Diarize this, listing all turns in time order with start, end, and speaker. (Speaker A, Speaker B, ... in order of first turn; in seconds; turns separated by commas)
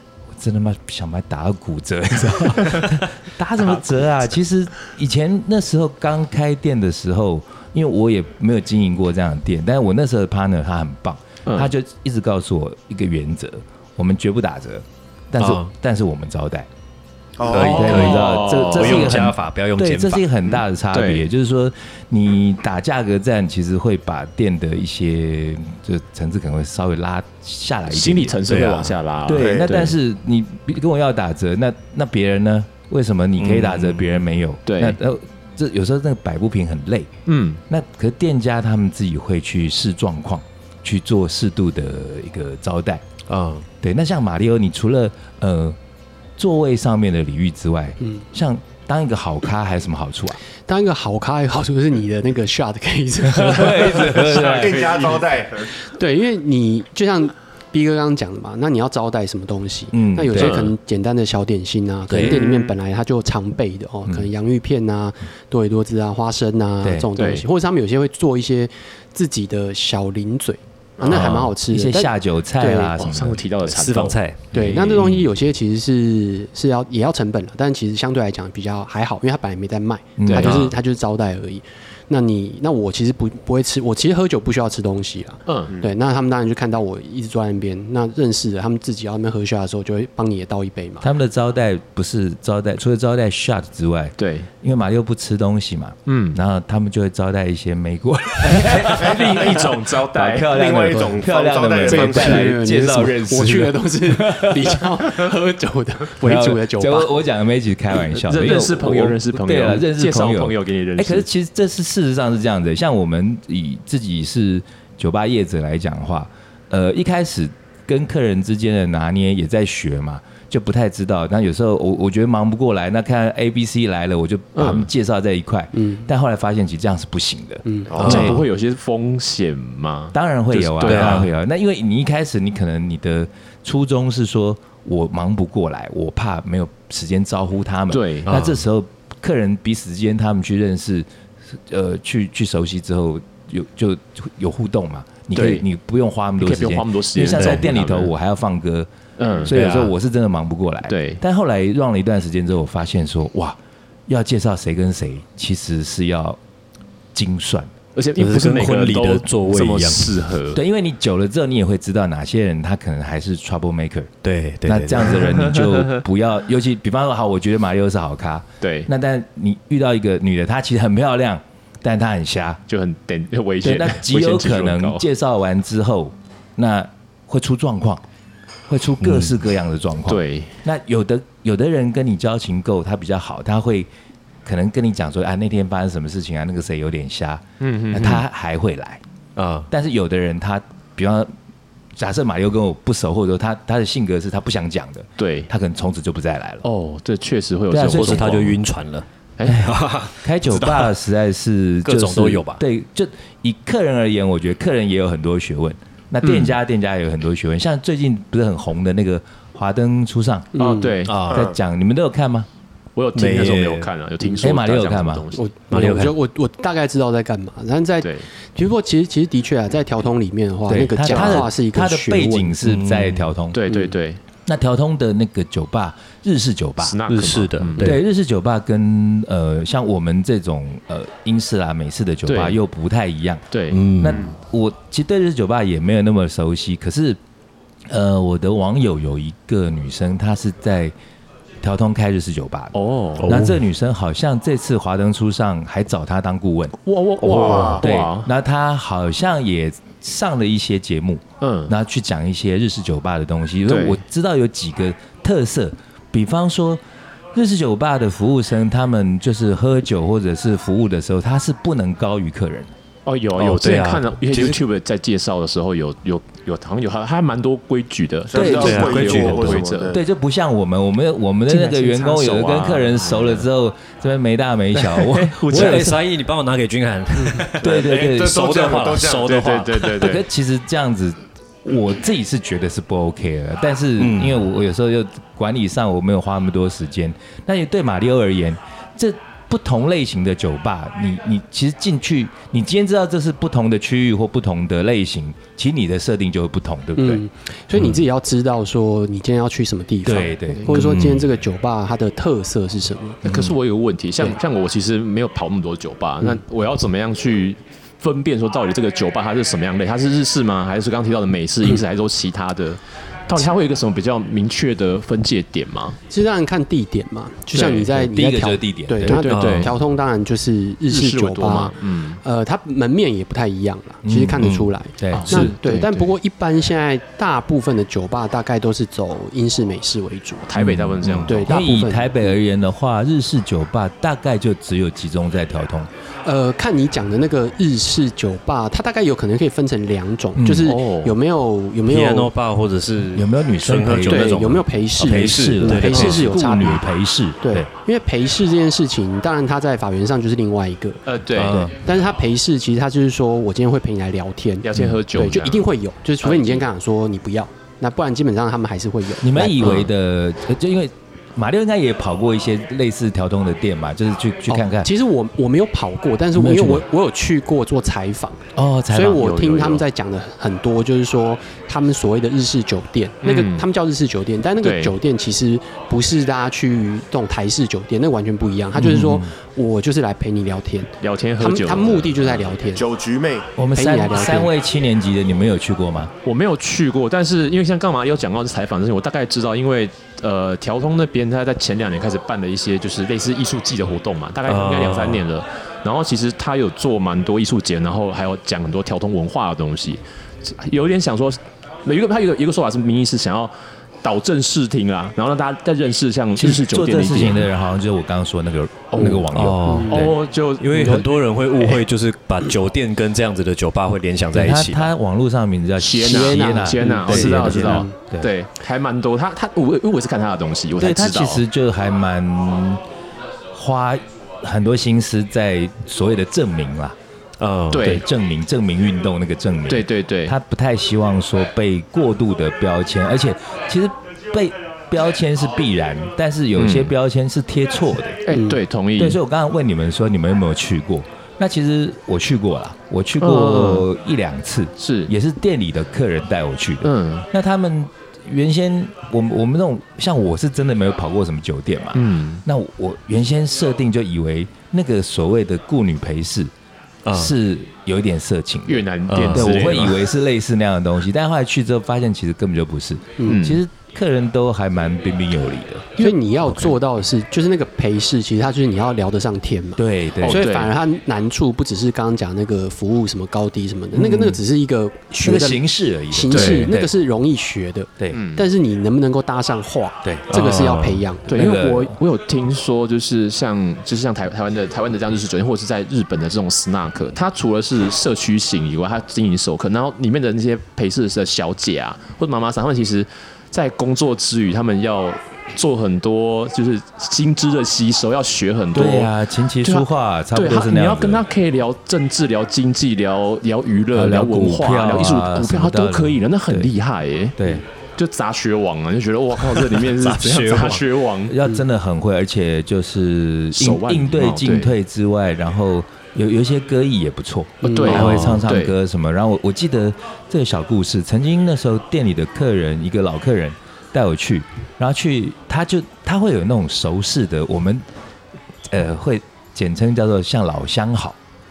Speaker A: 0.4-16.7, Speaker B: 15.4-15.7, Speaker C: 17.4-18.2, Speaker B: 17.5-20.3, Speaker A: 17.6-28.5, Speaker D: 17.7-19.3, Speaker D: 20.9-21.2, Speaker D: 27.9-29.9, Speaker B: 28.5-28.9, Speaker A: 29.2-37.1, Speaker C: 29.3-29.9, Speaker B: 33.4-34.1, Speaker D: 34.6-35.0, Speaker D: 37.2-37.6, Speaker A: 37.7-43.0, Speaker B: 43.3-43.7, Speaker A: 43.8-45.8, Speaker A: 46.4-50.4, Speaker E: 50.6-54.6, Speaker A: 53.2-55.1, Speaker C: 54.2-55.7, Speaker E: 55.8-72.9, Speaker A: 59.9-60.6, Speaker D: 60.3-60.7, Speaker C: 62.3-62.7, Speaker A: 66.8-67.1, Speaker D: 67.1-67.4, Speaker C: 71.0-71.3, Speaker A: 71.0-73.4, Speaker D: 73.0-75.0, Speaker B: 73.7-74.4, Speaker E: 74.5-91.1, Speaker A: 74.6-75.1, Speaker A: 80.2-80.6, Speaker D: 80.3-80.7, Speaker D: 85.5-85.7, Speaker A: 91.0-104.8, Speaker D: 94.2-94.5, Speaker D: 96.0-96.4, Speaker D: 98.4-100.5, Speaker C: 98.8-99.7, Speaker C: 100.4-102.5, Speaker E: 101.8-107.2, Speaker A: 106.2-128.4, Speaker D: 108.1-111.2, Speaker D: 124.5-124.9, Speaker E: 125.7-126.0, Speaker E: 127.7-127.9, Speaker C: 127.9-128.3, Speaker B: 128.0-128.4, Speaker D: 128.0-131.2, Speaker A: 130.1-156.4, Speaker B: 130.8-131.3, Speaker D: 137.9-138.3, Speaker B: 138.2-138.6, Speaker D: 145.3-145.6, Speaker D: 146.4-148.1, Speaker B: 147.3-147.7, Speaker D: 149.2-149.5, Speaker B: 149.5-149.9, Speaker D: 150.9-151.2, Speaker A: 157.1-157.7, Speaker D: 157.9-160.6, Speaker B: 158.2-160.2, Speaker A: 160.5-164.1, Speaker B: 164.2-165.8, Speaker A: 164.6-172.6, Speaker D: 168.6-168.9, Speaker D: 172.7-175.0, Speaker A: 173.6-178.0, Speaker A: 178.7-183.9, Speaker B: 179.0-179.3, Speaker D: 180.1-180.5, Speaker A: 184.4-189.0, Speaker D: 187.6-188.2, Speaker B: 189.3-189.7, Speaker A: 189.7-191.3, Speaker A: 191.9-196.6, Speaker D: 195.2-195.5, Speaker D: 196.6-198.5, Speaker A: 197.7-198.5, Speaker B: 197.8-200.9, Speaker D: 199.4-199.7, Speaker A: 200.2-210.5, Speaker B: 201.8-202.6, Speaker E: 210.5-211.0, Speaker D: 210.6-211.3, Speaker B: 211.0-211.5, Speaker C: 211.3-211.6, Speaker A: 211.3-212.5, Speaker D: 212.9-215.4, Speaker B: 213.1-213.9, Speaker A: 214.4-215.3, Speaker E: 215.3-222.6, Speaker B: 215.7-216.1, Speaker D: 218.0-218.2, Speaker A: 220.7-223.6, Speaker B: 222.6-223.3, Speaker D: 223.5-224.2, Speaker A: 224.4-227.0, Speaker D: 226.8-228.0, Speaker B: 227.1-228.0, Speaker A: 227.8-233.4, Speaker D: 232.2-232.6, Speaker D: 233.5-233.8, Speaker B: 233.7-234.3, Speaker A: 234.0-237.2, Speaker A: 237.9-240.9, Speaker A: 241.6-256.8, Speaker D: 242.7-243.3, Speaker B: 243.2-243.6, Speaker D: 246.8-248.3, Speaker C: 247.4-247.8, Speaker D: 251.4-251.7, Speaker D: 253.7-254.0, Speaker A: 257.3-262.7, Speaker D: 263.0-269.9, Speaker B: 263.4-264.6, Speaker C: 268.3-270.0, Speaker A: 268.3-269.1, Speaker B: 268.4-269.6, Speaker A: 269.9-276.0, Speaker D: 271.7-273.4, Speaker B: 275.0-280.2, Speaker D: 275.1-275.9, Speaker A: 277.6-278.4, Speaker C: 277.6-279.4, Speaker D: 279.2-280.2, Speaker A: 280.0-297.2, Speaker B: 284.0-284.4, Speaker E: 297.0-303.2, Speaker A: 300.0-300.8, Speaker B: 300.7-301.3, Speaker D: 303.2-316.0, Speaker E: 316.1-330.5, Speaker D: 317.5-317.9, Speaker A: 317.7-319.2, Speaker D: 319.0-319.8, Speaker B: 319.3-319.7, Speaker D: 320.9-322.2, Speaker A: 324.0-325.5, Speaker B: 324.4-324.7, Speaker D: 325.1-326.1, Speaker D: 330.4-331.5, Speaker A: 330.5-335.9, Speaker E: 331.2-332.3, Speaker E: 336.2-342.3, Speaker A: 340.3-340.8, Speaker D: 340.6-341.2, Speaker B: 341.9-346.4, Speaker A: 343.1-344.4, Speaker E: 344.1-346.9, Speaker A: 345.0-347.7, Speaker E: 347.4-351.0, Speaker D: 351.0-351.7, Speaker B: 351.4-351.7, Speaker E: 351.6-359.9, Speaker D: 354.6-355.7, Speaker D: 356.2-356.6, Speaker A: 359.2-364.9, Speaker E: 364.5-382.8, Speaker A: 366.3-366.8, Speaker A: 368.5-369.3, Speaker D: 369.1-369.8, Speaker D: 373.2-373.7, Speaker D: 374.6-374.9, Speaker A: 378.8-379.3, Speaker D: 381.0-382.6, Speaker C: 382.7-383.5, Speaker A: 383.6-386.1, Speaker E: 383.7-384.5, Speaker D: 386.2-407.5, Speaker B: 394.5-395.2, Speaker A: 406.4-410.1, Speaker D: 408.9-409.2, Speaker B: 409.3-414.9, Speaker E: 409.6-409.9, Speaker D: 409.9-411.1, Speaker A: 414.3-418.3, Speaker D: 415.8-421.4, Speaker E: 416.0-417.9, Speaker B: 417.1-417.6, Speaker A: 420.8-422.8, Speaker A: 423.5-426.9, Speaker B: 427.4-427.9, Speaker D: 427.7-428.0, Speaker A: 427.8-438.2, Speaker D: 429.7-430.3, Speaker D: 436.6-436.9, Speaker D: 438.2-439.2, Speaker E: 438.3-438.6, Speaker A: 439.0-456.5, Speaker D: 443.2-443.9, Speaker D: 444.8-445.1, Speaker D: 446.8-447.3, Speaker D: 451.9-452.4, Speaker B: 457.0-457.3, Speaker A: 457.1-465.9, Speaker D: 458.7-460.0, Speaker B: 459.1-459.6, Speaker D: 463.2-463.6, Speaker E: 466.0-481.5, Speaker A: 469.8-470.5, Speaker D: 470.2-470.7, Speaker A: 474.0-474.4, Speaker A: 475.2-476.9, Speaker D: 476.3-476.7, Speaker D: 478.1-478.5, Speaker B: 480.3-481.0, Speaker D: 481.3-499.1, Speaker A: 481.3-481.9, Speaker A: 498.7-501.2, Speaker D: 499.6-507.4, Speaker A: 503.9-506.7, Speaker A: 507.4-507.6, Speaker D: 507.9-511.4, Speaker B: 509.5-510.9, Speaker A: 511.3-527.8, Speaker D: 513.5-514.7, Speaker D: 517.6-518.7, Speaker E: 517.6-518.1, Speaker B: 517.9-518.5, Speaker A: 528.7-531.2